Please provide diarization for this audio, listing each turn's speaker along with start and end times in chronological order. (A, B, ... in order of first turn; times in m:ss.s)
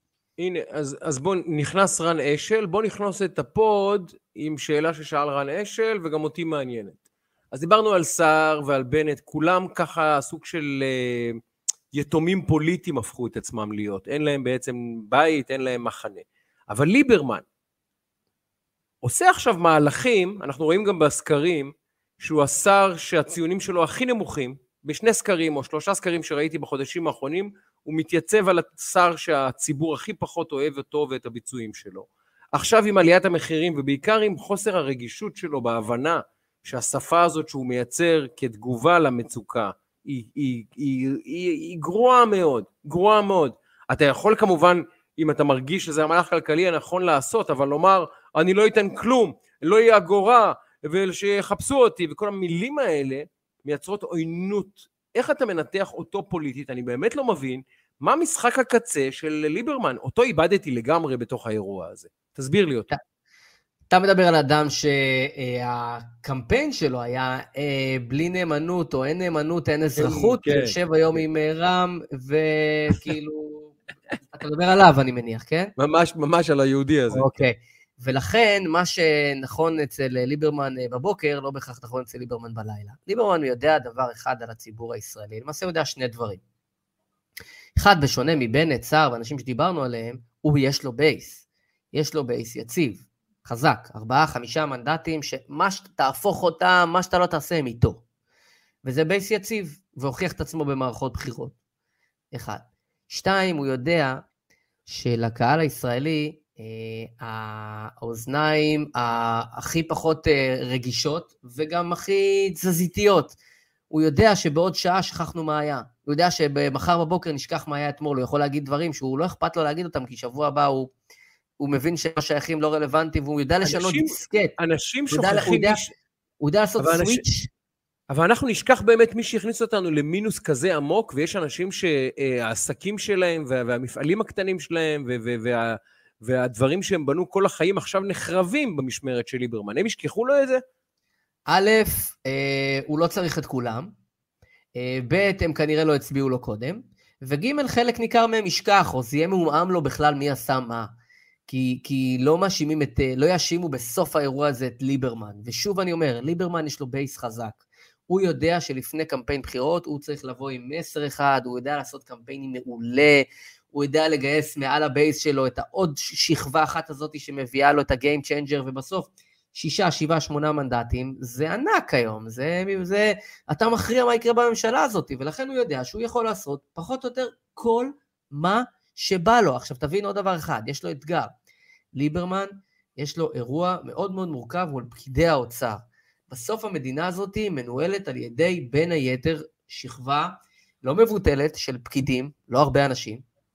0:00.4-0:07.0 A
0:07.5-0:11.4 A
0:11.9-0:17.4 A
0:19.0-1:02.9 A
1:03.9-1:15.7 B
1:10.0-1:10.8 A
1:15.8-1:17.3 A
1:17.1-1:26.4 B
1:27.8-1:38.0 B
1:38.8-1:41.6 B
1:42.3-1:44.2 B
1:44.9-1:53.4 B
1:53.9-2:00.9 B
2:01.6-2:04.6 B
2:03.6-2:05.9 A
2:05.1-2:05.8 B
2:06.4-2:07.5 B
2:06.8-2:07.2 A
2:08.1-2:20.6 A
2:21.5-2:23.9 B
2:24.8-2:30.9 B
2:31.5-3:01.3 B
3:01.9-3:13.2 B